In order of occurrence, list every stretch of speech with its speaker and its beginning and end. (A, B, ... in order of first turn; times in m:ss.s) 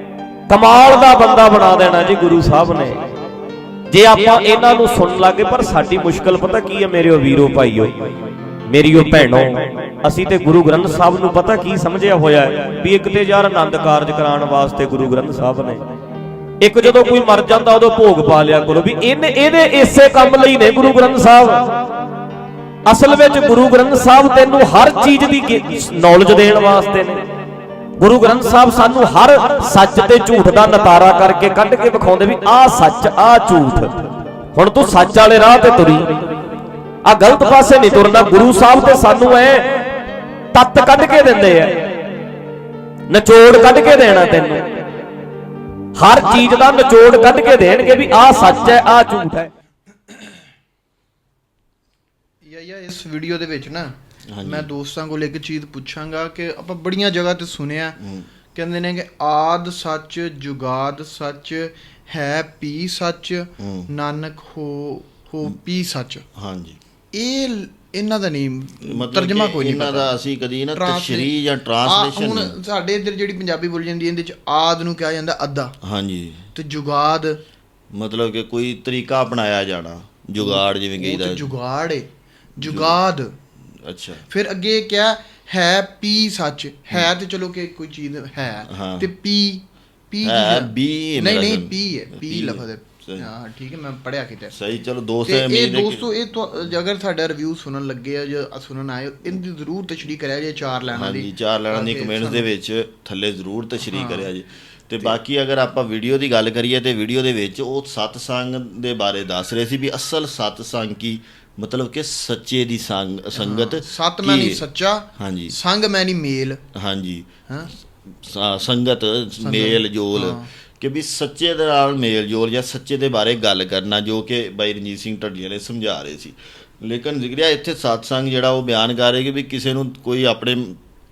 0:00.5-0:03.0 A
0:03.9-0:07.9 A
0:08.7-0:15.8 A
0:16.6-0:21.7 A
0:22.8-0:27.2 A
0:28.0-0:33.9 A
0:34.5-0:36.2 A
0:37.0-0:39.8 A
0:40.5-0:41.9 A
0:43.1-0:44.6 A
0:46.0-0:49.5 A
0:52.4-0:58.0 B
0:54.3-0:54.7 C
0:58.0-0:58.3 C
0:58.5-1:06.2 B
1:03.6-1:03.9 C
1:06.4-1:06.8 C
1:07.1-1:10.1 B
1:08.8-1:12.5 C
1:10.7-1:11.3 B
1:11.8-1:15.7 B
1:15.8-1:16.5 C
1:16.5-1:17.4 B
1:17.9-1:21.5 C
1:20.4-1:22.1 B
1:22.6-1:23.3 B
1:22.6-1:23.0 C
1:23.8-1:24.2 C
1:24.3-1:34.5 B
1:28.7-1:29.1 C
1:30.2-1:33.3 C
1:34.5-1:36.0 C
1:35.2-1:42.4 B
1:40.9-1:54.6 C
1:43.9-1:44.3 B
1:53.3-1:56.6 B
1:55.2-1:55.5 C
1:56.7-1:57.3 C
1:58.2-2:10.8 C
1:59.4-2:00.4 B